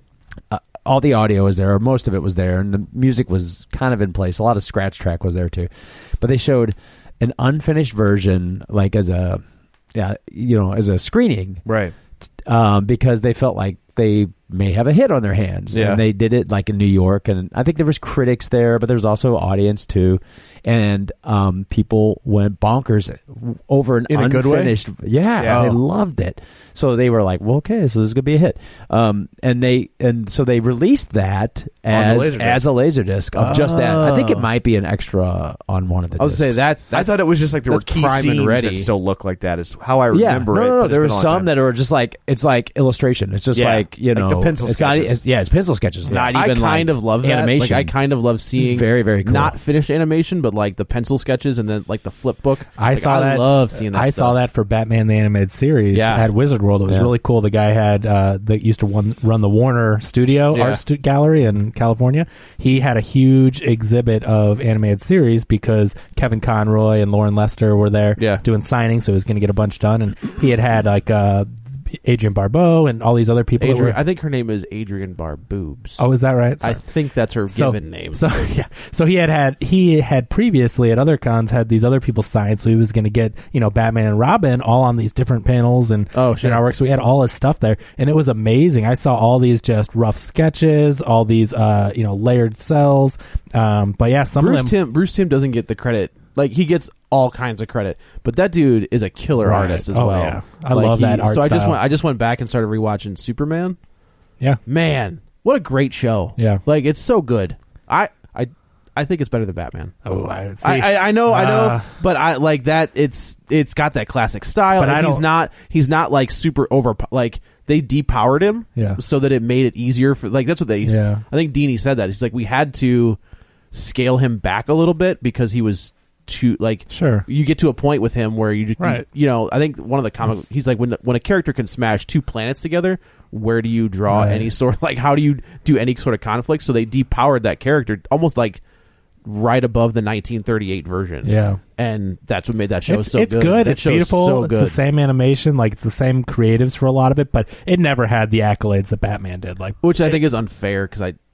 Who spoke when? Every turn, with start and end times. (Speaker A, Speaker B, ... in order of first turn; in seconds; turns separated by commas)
Speaker A: 0.5-9.4, Speaker A: 9.9-11.6, Speaker B: 11.7-11.9, Speaker A: 12.4-36.7, Speaker B: 15.7-16.0, Speaker C: 24.1-24.7, Speaker B: 25.4-25.7, Speaker C: 25.4-25.8, Speaker B: 31.9-32.7, Speaker C: 33.4-34.5, Speaker C: 36.2-38.9, Speaker B: 36.9-41.5, Speaker A: 40.1-48.0, Speaker B: 43.5-45.2, Speaker C: 46.3-54.4, Speaker A: 48.6-49.6, Speaker D: 52.8-74.0, Speaker C: 55.9-56.3, Speaker A: 56.9-57.1, Speaker C: 60.5-60.8, Speaker C: 68.2-68.4, Speaker C: 73.6-76.0, Speaker D: 76.0-76.8, Speaker C: 76.6-78.3, Speaker D: 77.5-94.7, Speaker C: 86.1-86.7, Speaker C: 94.4-103.8, Speaker D: 99.4-101.8, Speaker C: 104.7-110.0, Speaker D: 110.0-111.9, Speaker C: 110.6-123.2, Speaker D: 114.8-115.2, Speaker D: 120.8-121.2, Speaker C: 123.7-138.6, Speaker D: 126.9-127.2, Speaker D: 128.8-129.1, Speaker D: 134.1-134.5, Speaker C: 139.2-144.8, Speaker D: 141.2-141.6, Speaker D: 142.9-150.2, Speaker C: 149.8-151.2